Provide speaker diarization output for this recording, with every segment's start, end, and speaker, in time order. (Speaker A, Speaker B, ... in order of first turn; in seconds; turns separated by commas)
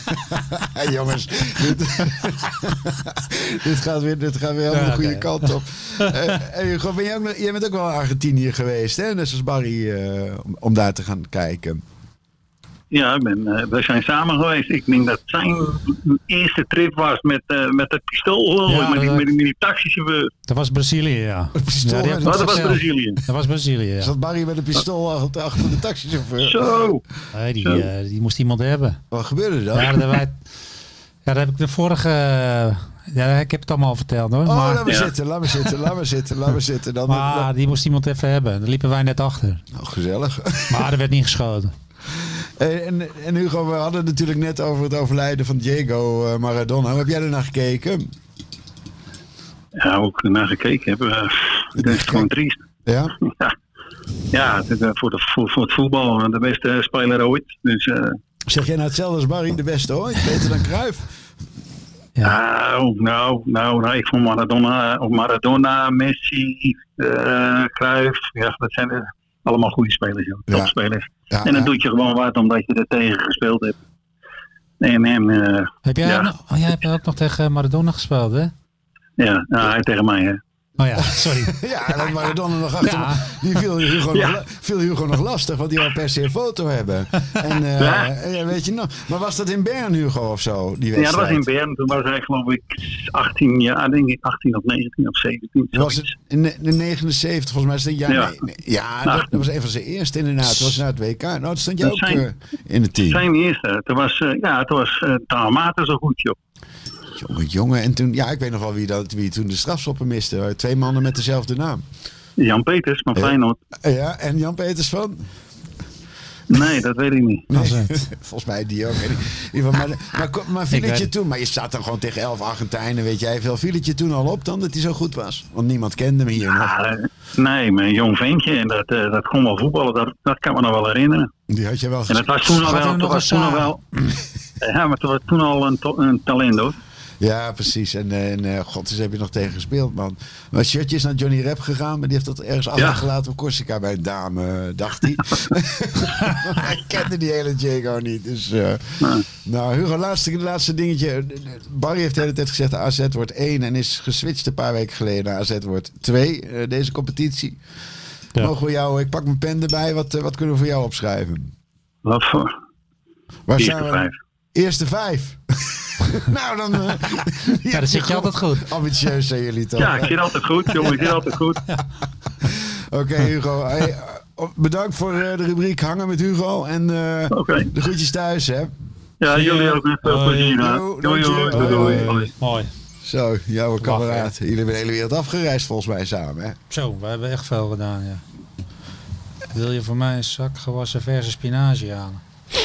Speaker A: 0.1-11.8, Speaker B: 4.7-6.3, Speaker C: 12.9-20.3, Speaker B: 18.7-19.3, Speaker B: 20.5-24.1, Speaker A: 21.6-22.8, Speaker C: 22.2-23.2, Speaker A: 24.0-26.9, Speaker C: 26.4-27.0, Speaker B: 27.3-29.0, Speaker A: 29.1-30.2, Speaker B: 29.7-30.4, Speaker B: 31.2-34.8, Speaker A: 34.5-37.5, Speaker C: 34.9-35.1, Speaker B: 37.1-39.6, Speaker A: 39.7-40.9, Speaker B: 40.7-41.7, Speaker A: 42.1-48.1, Speaker C: 49.8-52.6, Speaker A: 51.8-52.3, Speaker A: 52.9-53.1, Speaker C: 53.2-53.6, Speaker C: 54.3-58.2, Speaker A: 58.5-61.1, Speaker C: 62.2-73.8, Speaker A: 71.3-71.7, Speaker C: 74.8-76.3, Speaker B: 75.9-78.5, Speaker C: 79.2-80.4, Speaker B: 80.8-81.6, Speaker A: 81.0-91.5, Speaker B: 82.8-83.4, Speaker C: 84.1-84.4, Speaker C: 87.8-88.1, Speaker C: 91.0-96.1, Speaker A: 95.7-103.3, Speaker C: 98.1-98.3, Speaker C: 99.0-99.4, Speaker C: 101.8-102.2, Speaker C: 103.0-106.4, Speaker A: 107.2-111.9, Speaker C: 112.4-113.6, Speaker A: 113.1-115.2, Speaker C: 116.5-117.5, Speaker A: 117.5-126.7, Speaker B: 117.5-118.1, Speaker B: 120.7-121.1, Speaker C: 126.4-131.3, Speaker A: 131.5-132.5, Speaker C: 132.1-133.8, Speaker B: 132.5-133.7, Speaker C: 134.6-136.8, Speaker A: 137.2-157.6, Speaker C: 142.8-143.0, Speaker A: 158.4-161.5, Speaker C: 162.1-162.6, Speaker A: 163.5-171.2, Speaker C: 163.6-164.1, Speaker B: 167.7-168.7, Speaker C: 169.8-171.6, Speaker A: 172.4-178.7, Speaker C: 177.3-177.7, Speaker C: 179.2-182.3, Speaker B: 179.3-180.6, Speaker A: 180.6-182.2, Speaker B: 181.5-182.7, Speaker A: 183.0-186.6, Speaker B: 183.8-184.3, Speaker B: 186.7-188.2, Speaker B: 189.5-192.2